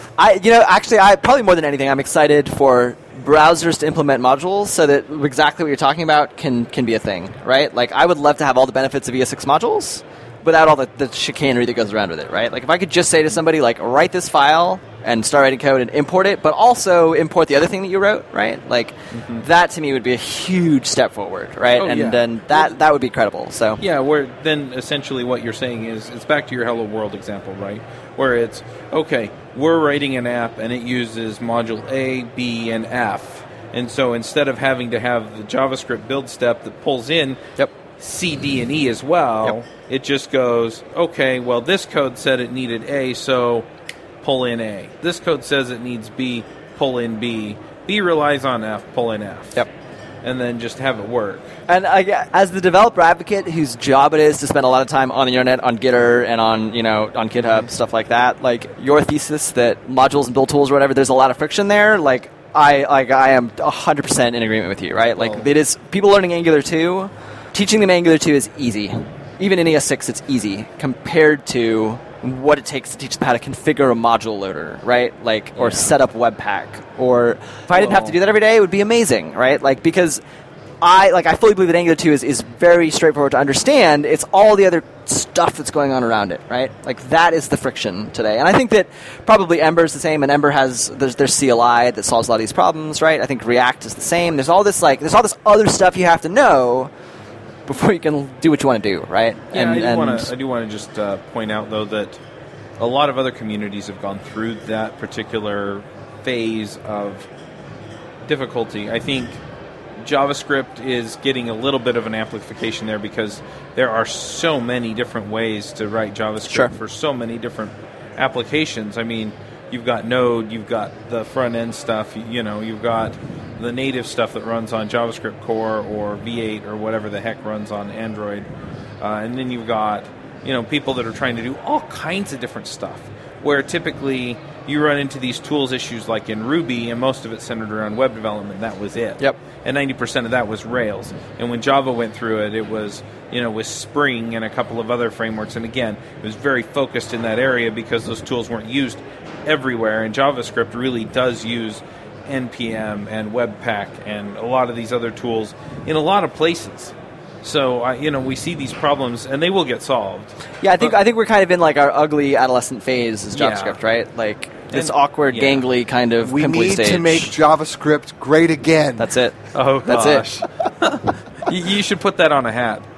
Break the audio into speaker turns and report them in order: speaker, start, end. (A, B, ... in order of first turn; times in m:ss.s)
0:00.2-0:23.8 A
0:19.1-0:19.4 B
0:21.8-0:22.8 B
0:23.8-0:37.4 B
0:38.0-0:43.7 B
0:44.2-0:49.6 B
0:50.2-0:51.5 B
0:51.7-1:20.2 A
1:15.6-1:15.9 B
1:17.7-1:18.2 B
1:20.8-1:36.9 A
1:37.7-1:40.3 A
1:39.5-1:42.2 B
1:42.8-1:47.3 B
1:48.2-1:49.4 B
1:50.0-2:08.4 B
2:09.0-2:40.9 B
2:40.6-2:47.3 A
2:43.3-2:43.8 B
2:44.7-2:45.6 B
2:46.2-2:49.1 C
2:49.0-2:50.3 A
2:49.5-2:52.8 B